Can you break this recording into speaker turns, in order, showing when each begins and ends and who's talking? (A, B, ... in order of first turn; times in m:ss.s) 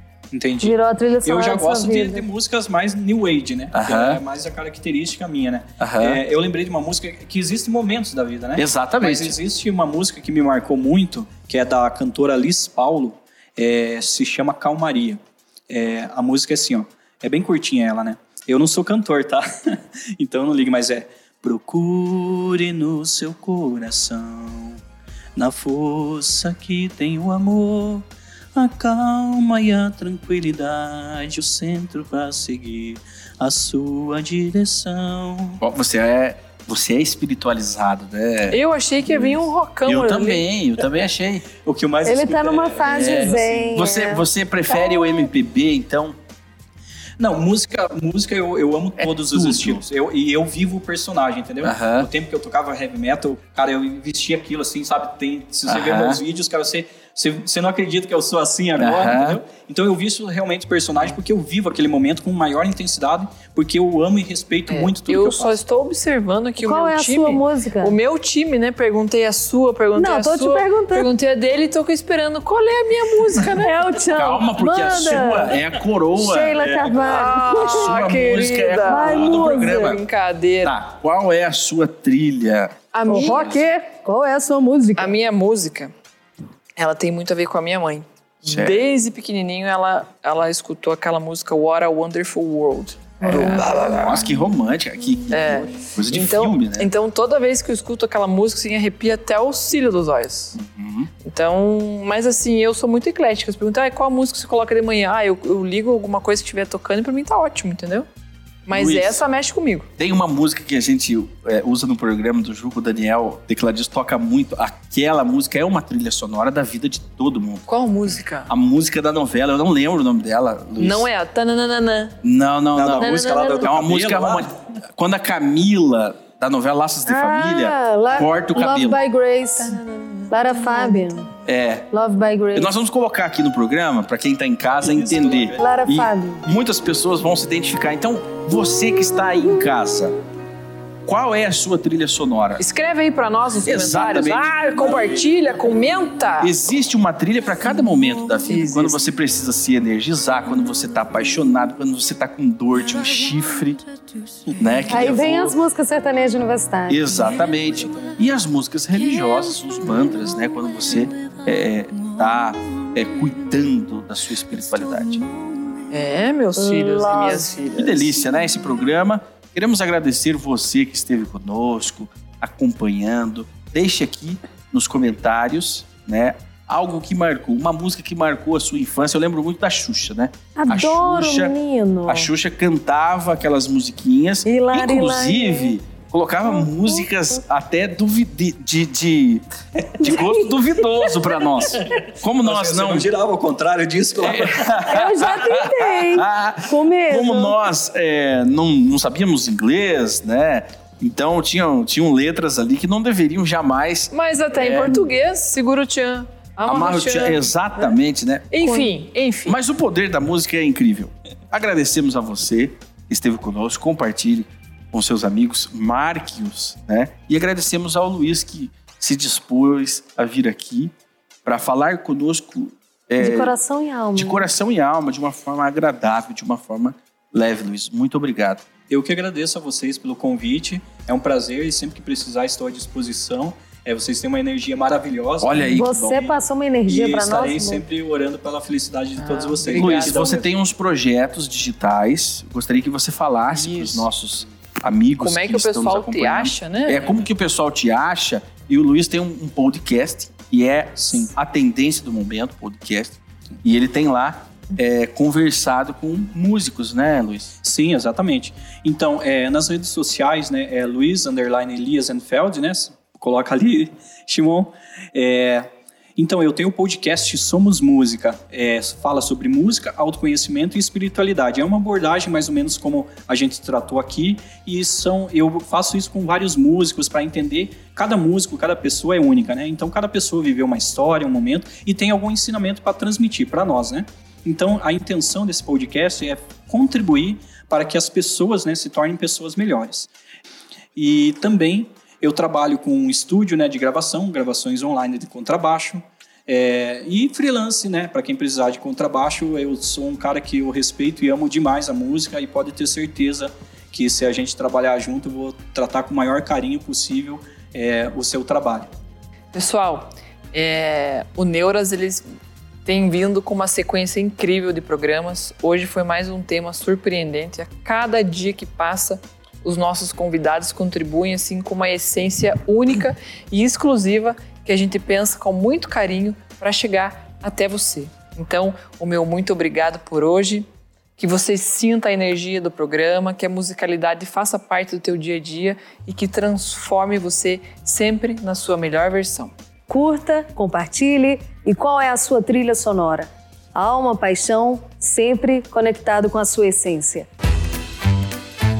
0:00.3-0:24.8 A
0:00.6-0:02.2 B
0:03.7-0:04.2 C
0:05.8-0:06.2 C
0:08.6-0:09.4 C
0:25.4-0:35.6 A
0:35.6-0:38.6 C
0:38.5-0:40.4 D
0:39.9-0:41.5 C
0:41.6-0:43.9 A
0:42.0-0:45.3 B
0:42.8-0:46.2 C
0:47.2-1:05.6 A
0:49.0-0:49.8 C
0:51.6-0:52.1 C
0:55.7-0:56.2 C
0:58.8-0:59.4 C
1:04.7-1:13.8 D
1:06.6-1:08.0 B
1:10.0-1:11.1 B
1:13.5-1:18.0 B
1:14.1-1:20.0 C
1:16.6-1:16.9 A
1:17.0-1:20.8 D
1:18.8-1:20.0 B
1:20.6-1:23.5 C
1:22.9-1:23.6 D
1:23.1-1:25.1 B
1:25.0-1:25.9 D
1:26.8-1:34.3 D
1:28.5-1:28.8 C
1:33.2-1:33.8 B
1:33.3-1:36.9 C
1:35.3-1:40.6 D
1:40.6-1:41.1 C
1:41.2-1:48.1 D
1:48.7-1:49.9 D
1:48.7-1:49.2 C
1:50.0-1:57.6 C
1:57.7-1:58.5 D
1:58.5-2:01.1 C
2:00.8-2:02.2 D
2:02.2-2:09.0 C
2:02.8-2:04.5 A
2:03.0-2:03.7 D
2:07.1-2:11.3 B
2:11.4-2:11.9 C
2:11.9-2:12.7 B
2:12.5-2:20.2 C
2:14.8-2:15.8 A
2:15.6-2:16.4 B
2:21.0-2:22.6 C
2:22.6-2:26.5 D
2:23.6-2:25.0 C
2:26.4-2:33.8 C
2:28.5-2:29.0 D
2:34.5-2:35.6 C
2:34.9-2:37.1 B
2:36.9-2:45.3 C
2:45.9-2:48.0 D
2:46.6-2:47.8 B
2:47.6-3:01.6 C
3:00.6-3:02.3 B
3:02.1-3:09.4 C
3:04.5-3:05.8 B
3:06.5-3:07.0 B
3:10.0-3:13.1 C
3:10.0-3:11.1 B
3:11.7-3:14.8 A
3:14.2-3:25.1 C
3:14.8-3:17.6 B
3:24.1-3:27.9 D
3:26.7-3:28.6 C
3:28.5-3:29.6 D
3:29.5-3:40.9 C
3:41.4-3:43.5 C
3:43.2-3:44.4 B
3:44.2-3:48.6 C
3:48.9-4:00.5 A
3:55.4-3:56.2 C
3:55.7-3:57.8 B
3:59.2-4:00.4 D
3:59.8-4:17.5 C
4:05.2-4:07.1 D
4:11.0-4:11.3 A
4:17.6-4:50.1 A
4:51.0-5:08.9 A
5:09.5-5:12.3 D
5:12.8-5:39.5 D
5:39.9-5:47.3 B